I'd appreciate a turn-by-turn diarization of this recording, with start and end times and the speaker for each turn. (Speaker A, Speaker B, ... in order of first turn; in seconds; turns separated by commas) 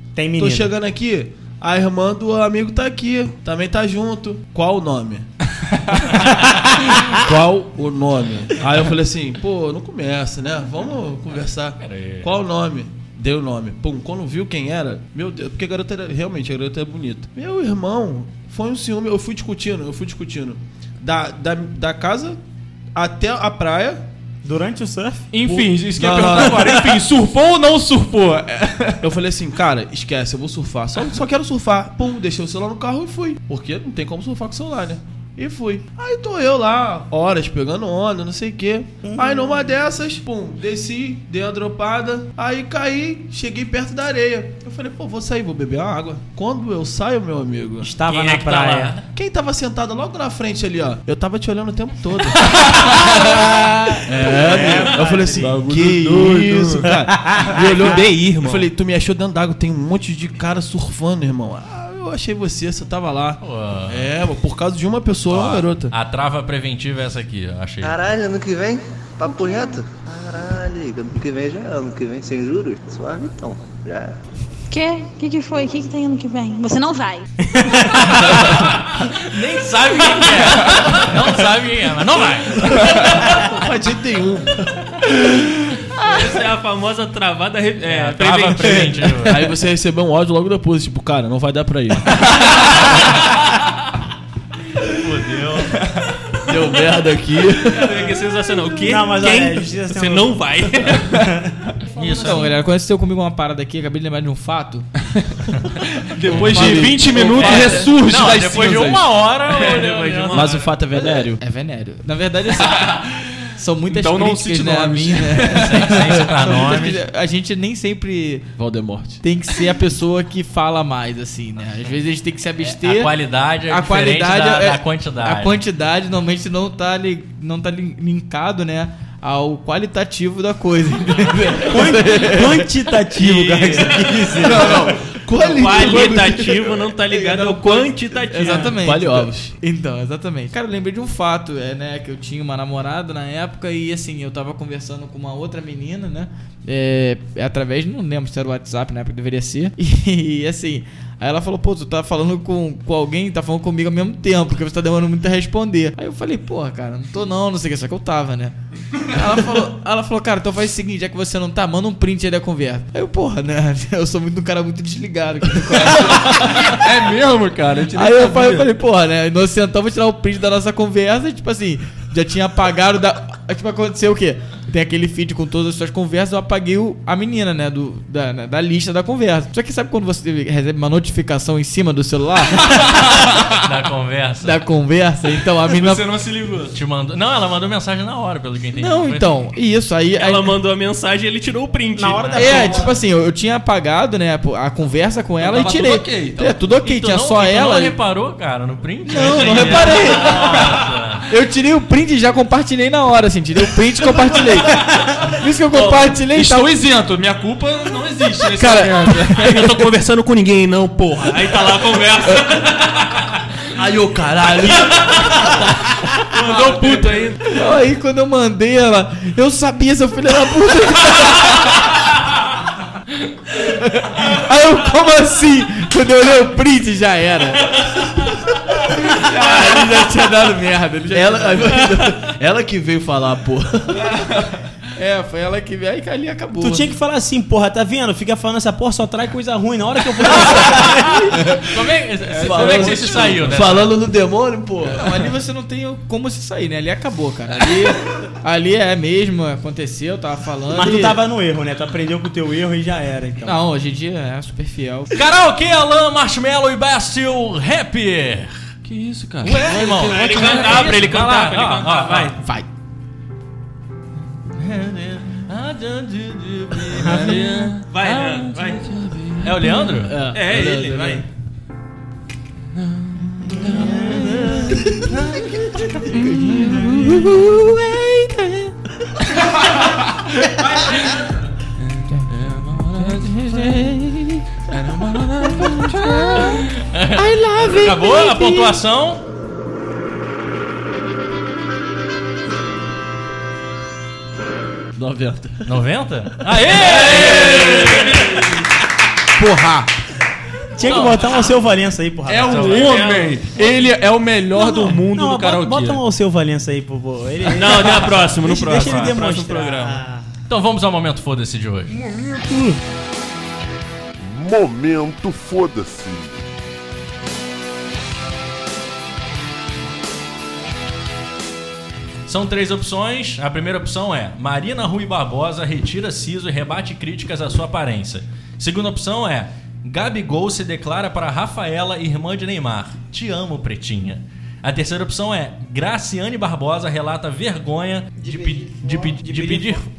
Speaker A: 0.2-0.8, Speaker B: 0.4-5.3, Speaker B: 6.2-22.4, Speaker C: 11.8-12.3, Speaker B: 22.9-24.0, Speaker A: 24.4-25.3, Speaker D: 25.3-29.1, Speaker B: 25.4-26.9, Speaker B: 29.0-47.9, Speaker A: 39.0-39.6, Speaker A: 47.8-49.0, Speaker C: 48.1-49.0, Speaker B: 49.1-65.9, Speaker A: 53.1-55.6, Speaker D: 55.4-56.9, Speaker A: 56.8-58.0, Speaker E: 57.6-58.7, Speaker C: 63.4-64.1, Speaker C: 65.3-68.0, Speaker F: 67.8-74.1, Speaker G: 69.3-69.7, Speaker G: 74.7-77.2, Speaker A: 77.5-78.2, Speaker C: 77.8-83.7, Speaker B: 82.9-84.8, Speaker E: 86.0-89.3, Speaker C: 87.8-89.5, Speaker B: 89.2-92.7, Speaker C: 92.9-93.6, Speaker C: 94.8-96.1, Speaker B: 96.5-98.2, Speaker E: 97.6-101.2, Speaker A: 98.8-100.3, Speaker A: 101.2-101.7, Speaker C: 101.9-102.5, Speaker H: 102.1-104.9, Speaker D: 106.2-109.5, Speaker H: 106.2-107.6, Speaker B: 106.3-107.9, Speaker C: 107.3-110.7, Speaker E: 109.5-110.7, Speaker B: 110.3-111.4, Speaker H: 111.4-113.0, Speaker D: 112.8-113.1, Speaker H: 113.5-118.5, Speaker D: 113.9-116.0, Speaker C: 115.5-117.0, Speaker B: 118.6-119.2, Speaker H: 119.2-123.1, Speaker C: 122.6-125.6, Speaker H: 123.7-132.7, Speaker B: 131.3-132.3, Speaker A: 131.6-135.0, Speaker H: 133.8-134.8, Speaker B: 134.3-138.0, Speaker E: 135.5-138.8, Speaker H: 138.3-166.8, Speaker B: 138.8-139.6, Speaker D: 166.3-168.7, Speaker H: 167.9-183.2, Speaker C: 183.6-184.6, Speaker H: 184.4-186.1, Speaker D: 185.6-186.8, Speaker C: 186.7-189.3, Speaker H: 188.8-190.6, Speaker E: 190.1-192.9, Speaker A: 191.9-192.9, Speaker H: 192.3-198.0, Speaker D: 195.4-196.6, Speaker C: 196.8-201.3, Speaker H: 199.1-206.8, Speaker D: 205.8-209.4, Speaker H: 208.4-209.8, Speaker E: 209.4-213.1, Speaker D: 214.2-214.5, Speaker D: 216.3-217.4, Speaker H: 217.5-221.8, Speaker H: 223.5-232.1, Speaker B: 231.1-234.3, Speaker H: 235.0-236.9, Speaker A: 236.6-241.1, Speaker C: 240.7-244.0, Speaker D: 242.3-243.6, Speaker B: 242.4-245.1, Speaker H: 244.9-251.2, Speaker A: 250.7-253.6, Speaker H: 253.4-255.2, Speaker C: 255.1-258.6, Speaker D: 258.9-261.1, Speaker C: 259.4-262.4, Speaker E: 259.6-262.4, Speaker H: 262.4-262.7, Speaker C: 264.9-268.5, Speaker D: 266.9-268.0, Speaker H: 267.1-267.5, Speaker E: 267.9-268.9, Speaker D: 268.6-270.0, Speaker C: 269.4-270.2, Speaker H: 269.7-270.4, Speaker B: 270.0-271.2, Speaker E: 270.3-271.2, Speaker D: 272.8-275.4, Speaker H: 273.4-279.2, Speaker C: 275.4-275.9, Speaker D: 276.2-277.4, Speaker D: 279.6-280.3, Speaker D: 281.8-283.9, Speaker H: 282.9-286.6, Speaker D: 284.7-286.6, Speaker C: 286.8-289.2, Speaker H: 287.2-288.8, Speaker B: 294.9-295.8, Speaker C: 295.6-298.5, Speaker D: 296.8-298.4, Speaker B: 296.9-298.0, Speaker A: 300.8-303.0, Speaker C: 300.8-301.5, Speaker D: 302.3-306.0, Speaker C: 302.4-303.5, Speaker A: 304.5-310.3, Speaker E: 307.5-310.0, Speaker C: 308.7-309.1, Speaker C: 310.5-312.0, Speaker I: 314.2-316.4, Speaker C: 322.3-339.9, Speaker H: 338.2-339.8